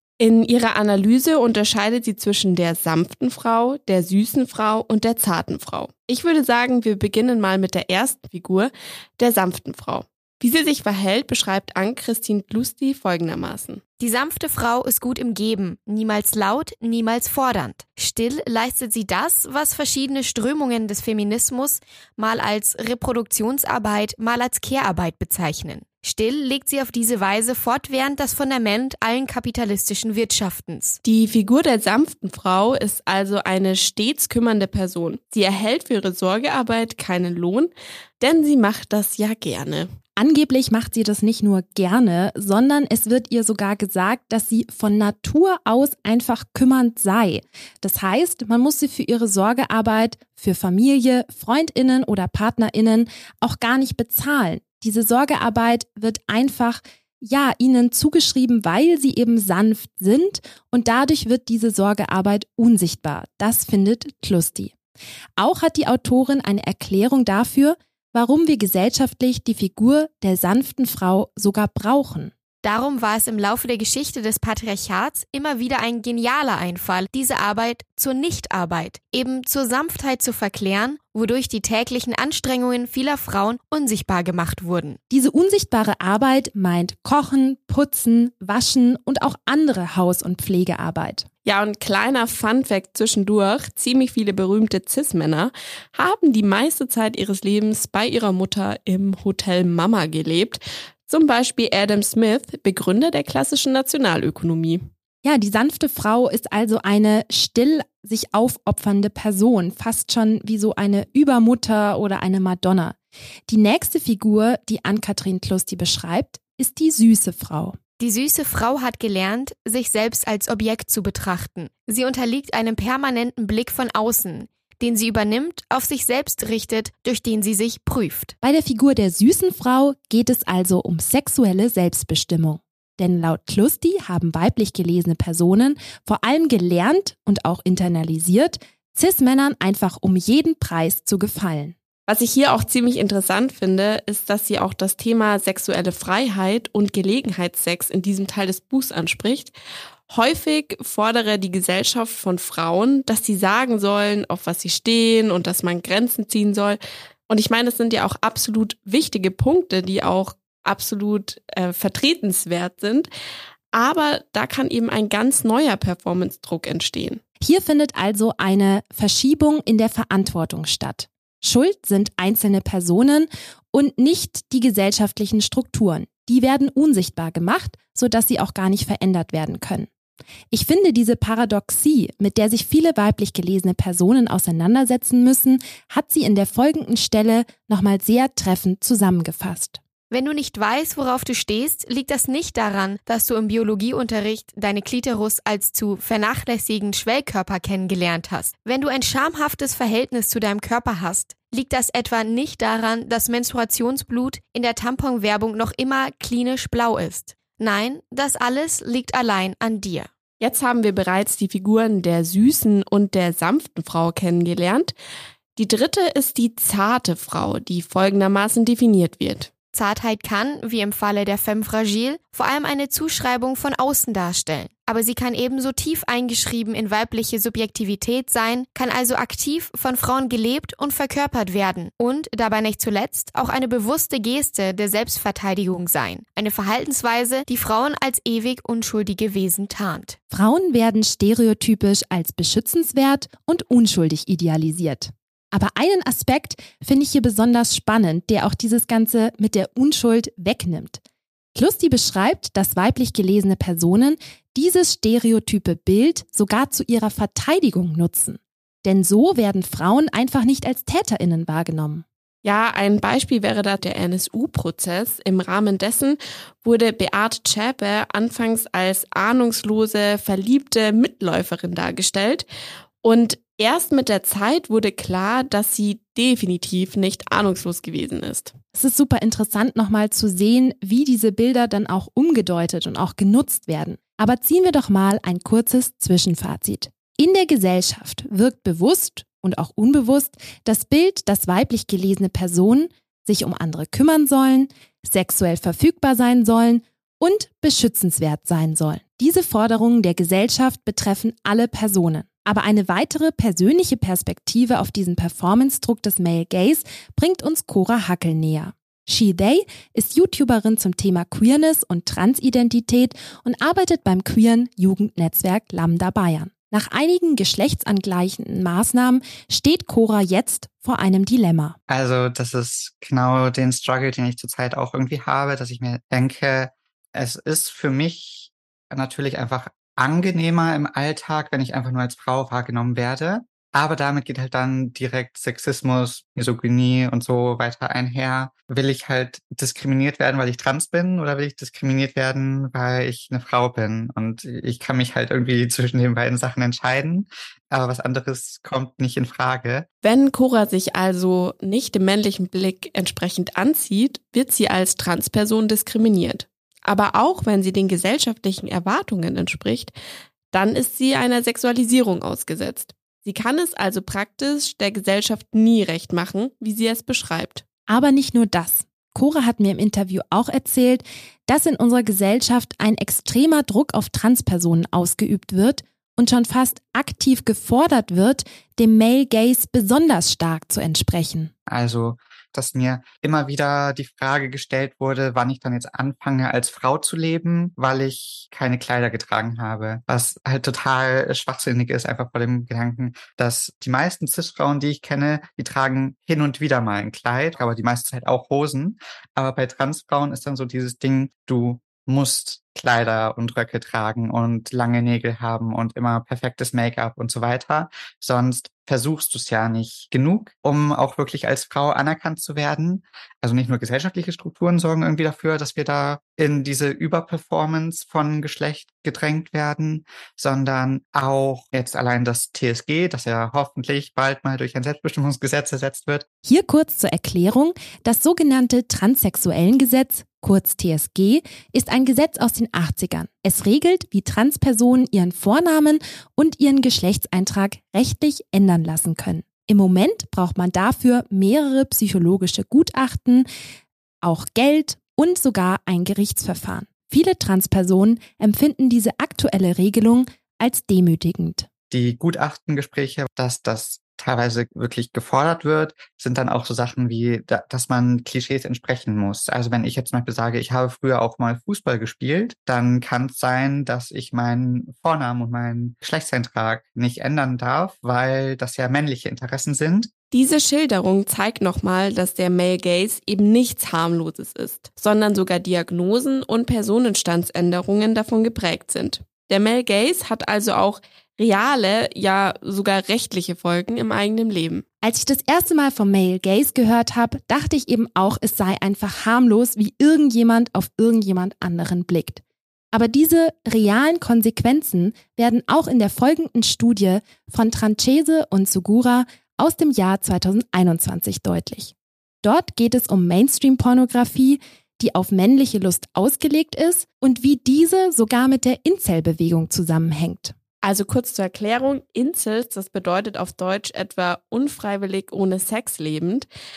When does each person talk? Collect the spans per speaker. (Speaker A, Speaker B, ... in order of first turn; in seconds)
Speaker A: 0.2-13.8, 31.0-39.9, 91.5-104.9, 142.1-149.5, 150.1-163.1, 163.7-167.2, 210.4-214.9, 215.6-219.5, 262.4-272.5, 273.0-278.5, 350.0-359.9, 360.5-367.6, 470.3-484.8, 510.8-516.5
Speaker B: 14.0-31.0, 72.6-85.0, 118.0-128.3, 190.1-210.1, 219.7-240.2
Speaker C: 40.2-64.7, 65.4-72.3, 85.1-91.3, 105.2-113.0, 113.5-117.8, 128.4-141.8, 167.4-179.9, 180.5-189.8, 240.3-251.0, 251.6-262.1, 278.7-321.8, 367.9-381.5, 426.4-443.5, 444.2-451.7, 485.0-510.6
Speaker D: 321.9-349.9, 381.7-426.2, 451.9-470.1